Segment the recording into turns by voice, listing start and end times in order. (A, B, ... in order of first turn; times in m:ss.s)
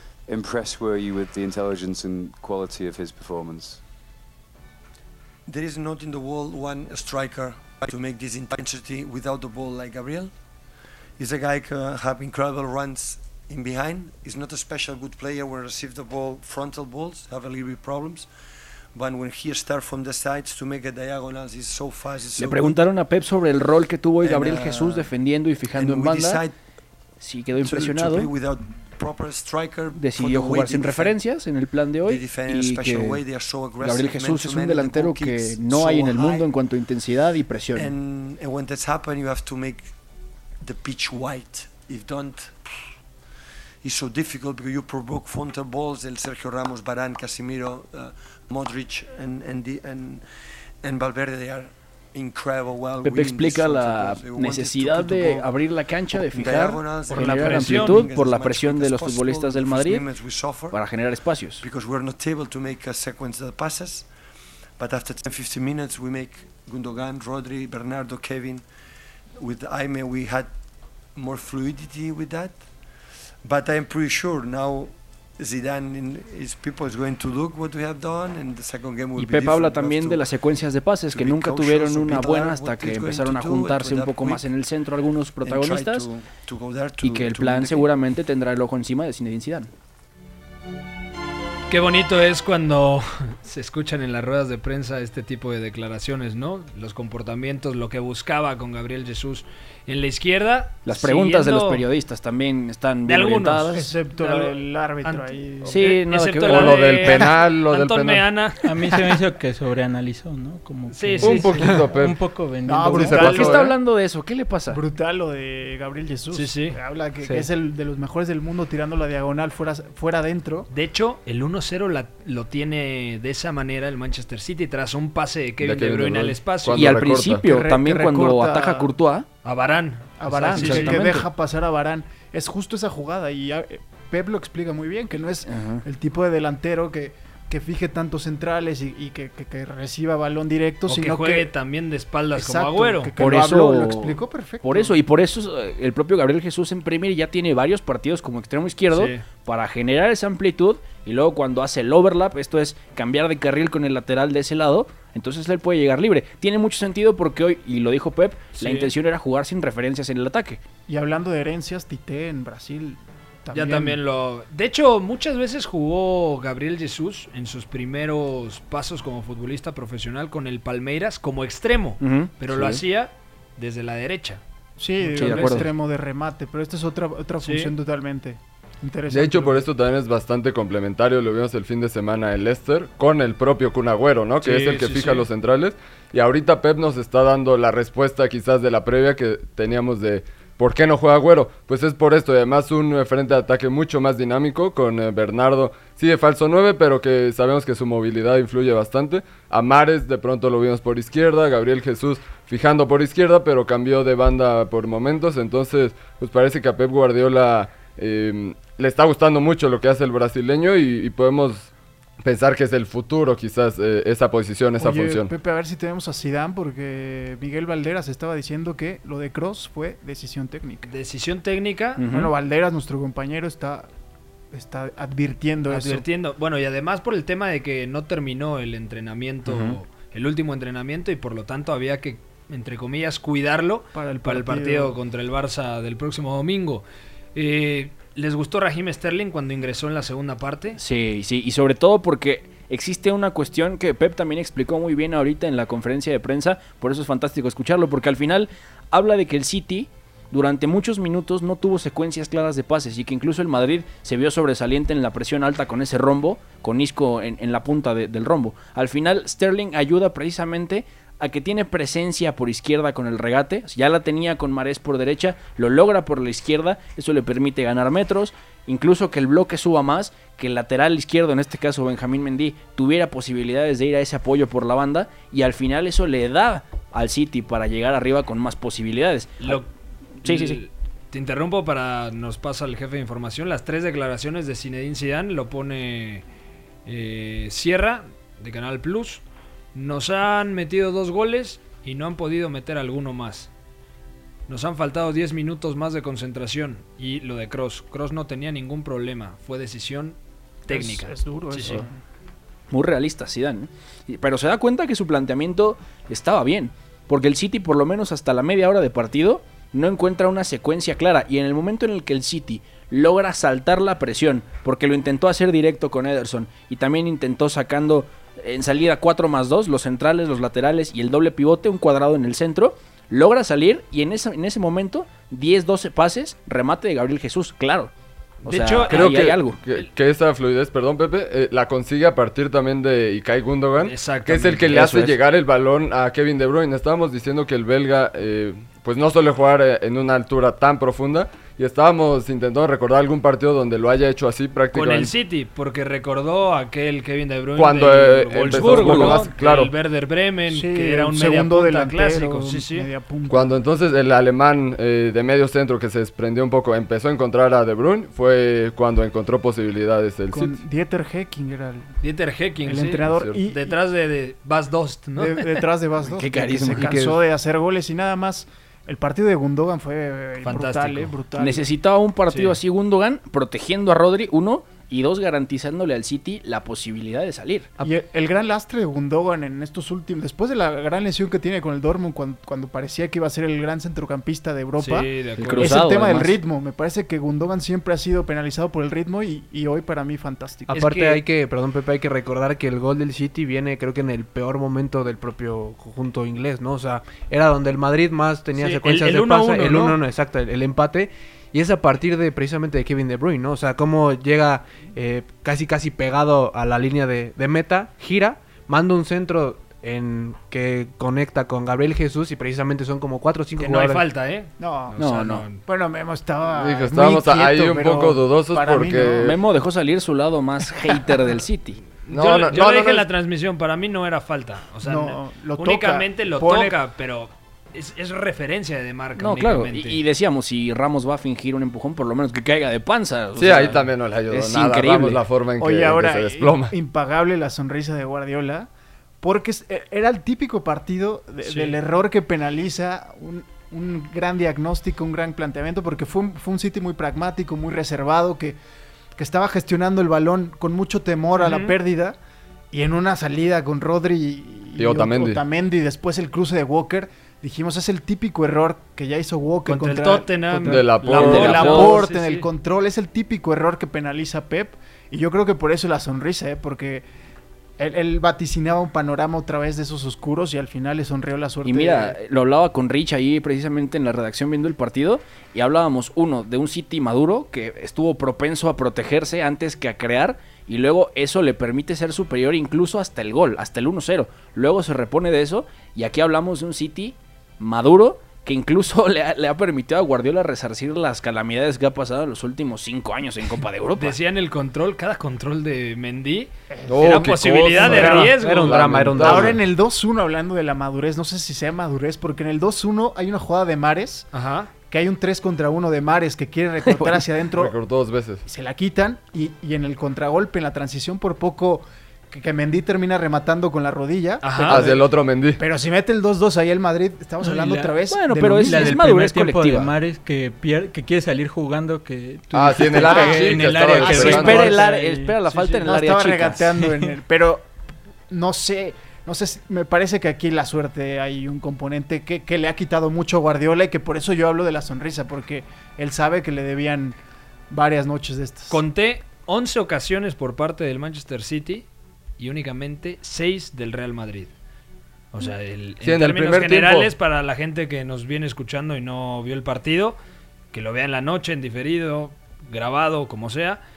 0:00.3-0:03.8 A
0:05.5-0:10.3 B
0:11.2-0:18.3 B
0:19.0-0:22.8 B
0:22.4-0:26.4 C
0:24.2-0:25.1 B
0:25.7-0:26.6 B
0:27.2-0:28.3 C
0:27.6-0:31.2 B
0:30.0-0:33.2 C
0:32.0-0:36.5 B
0:33.8-0:37.9 C
0:37.7-0:39.9 B
0:40.6-0:42.7 B
0:43.8-0:50.2 B
0:50.8-0:55.5 B
0:53.0-1:00.0 C
0:56.2-1:00.8 B
0:57.1-0:58.1 D
1:00.7-1:01.6 C
1:01.6-1:04.1 B
1:04.8-1:08.6 B
1:09.4-1:10.5 B
1:11.1-1:12.6 B
1:13.4-1:20.3 B
1:19.2-1:26.1 C
1:21.1-1:24.5 B
1:25.4-1:27.9 B
1:27.0-1:29.7 C
1:31.7-1:41.8 D
1:40.8-1:43.8 C
1:43.1-1:48.7 D
1:43.7-1:45.8 E
1:45.7-1:47.3 C
1:46.5-1:48.3 F
1:48.6-1:53.2 G
1:50.9-1:51.6 D
1:51.2-1:51.6 E
1:51.6-1:52.2 F
1:52.7-1:53.7 E
1:52.9-1:53.7 F
1:52.9-1:54.8 C
1:54.7-2:00.7 E
1:56.3-1:56.8 D
1:57.2-1:57.5 C
2:00.7-2:06.8 D
2:05.6-2:07.5 F
2:06.7-2:09.3 C
2:07.5-2:08.9 E
2:09.4-2:11.2 D
2:10.2-2:21.5 E
2:10.3-2:11.3 C
2:15.5-2:15.8 C
2:20.9-2:23.1 D
2:22.4-2:25.0 E
2:23.2-2:40.6 C
2:28.9-2:29.2 D
2:38.6-2:38.9 D
2:40.9-2:44.0 E
2:43.5-2:54.4 D
2:52.0-2:52.8 C
2:54.8-2:59.7 E
2:55.0-2:55.8 D
2:55.2-2:55.7 C
2:57.4-2:57.7 D
2:59.1-3:31.7 F
3:04.4-3:05.2 D
3:32.2-3:35.3 F
3:34.8-3:40.9 E
3:40.8-3:42.0 D
3:42.0-3:42.3 C
3:42.1-3:43.9 E
3:44.5-3:46.0 E
3:45.7-3:56.8 D
3:49.5-3:49.8 C
3:53.9-3:55.0 E
3:57.4-4:00.8 D
4:00.8-4:39.6 C
4:39.4-4:39.7 D
4:40.2-4:40.6 C
4:40.2-4:46.2 D
4:46.8-4:49.2 D
4:49.8-4:53.5 D
4:54.5-5:01.9 D
5:00.7-5:02.0 E
5:02.7-5:27.9 C
5:28.4-5:29.6 C
5:28.5-5:29.1 D
5:28.9-5:45.1 F
5:33.8-5:35.0 D
5:34.7-5:35.2 C
5:44.7-5:52.9 D
5:47.6-5:49.7 F
5:48.5-5:49.2 C
5:48.6-5:49.2 E
5:50.5-5:53.6 E
5:53.3-6:00.6 F
6:00.3-6:01.9 E
6:02.0-6:05.7 D
6:02.6-6:03.8 E
6:03.1-6:03.4 F
6:05.2-6:11.7 E
6:06.1-6:07.2 C
6:10.4-6:11.2 D
6:11.4-6:17.7 C
6:12.3-6:12.6 D
6:17.8-6:30.8 E
6:24.8-6:25.9 D
6:25.4-6:26.4 C
6:30.7-6:31.2 D
6:30.8-6:54.0 H
6:38.6-6:40.0 D
6:53.6-6:55.6 D
6:54.6-6:55.1 E
6:55.0-6:55.5 C
6:55.6-6:59.3 E
6:56.5-6:59.4 F
6:59.2-7:01.8 C
7:02.1-7:10.0 D
7:02.1-7:03.1 F
7:04.8-7:06.8 E
7:09.2-7:15.2 C
7:13.4-7:16.7 F
7:15.6-7:18.7 E
7:19.2-7:28.6 E
7:21.4-7:21.8 D
7:29.2-7:32.2 E
7:31.4-7:31.8 D
7:32.7-7:47.1 E
7:34.8-7:35.4 F
7:39.7-7:42.5 D
7:40.7-7:42.0 F
7:41.2-7:41.9 C
7:47.8-7:52.2 E
7:51.6-8:14.2 C
8:14.0-8:19.5 D
8:16.7-8:18.3 E
8:16.9-8:19.6 F
8:18.0-8:19.5 H
8:19.1-8:24.3 E
8:24.3-8:24.7 D
8:24.8-8:27.8 E
8:27.0-8:28.4 F
8:28.4-8:38.9 E
8:34.4-8:34.9 D
8:34.7-8:35.6 F
8:37.6-8:38.0 H
8:38.1-8:39.9 C
8:38.6-8:44.6 G
8:42.5-8:44.8 F
8:43.0-8:47.7 E
8:43.1-8:43.5 H
8:44.0-8:46.8 C
8:48.3-8:57.2 E
8:57.7-8:58.8 E
8:58.7-9:01.9 D
9:02.4-9:04.5 D
9:05.3-9:10.2 D
9:06.0-9:07.1 F
9:10.7-9:13.8 D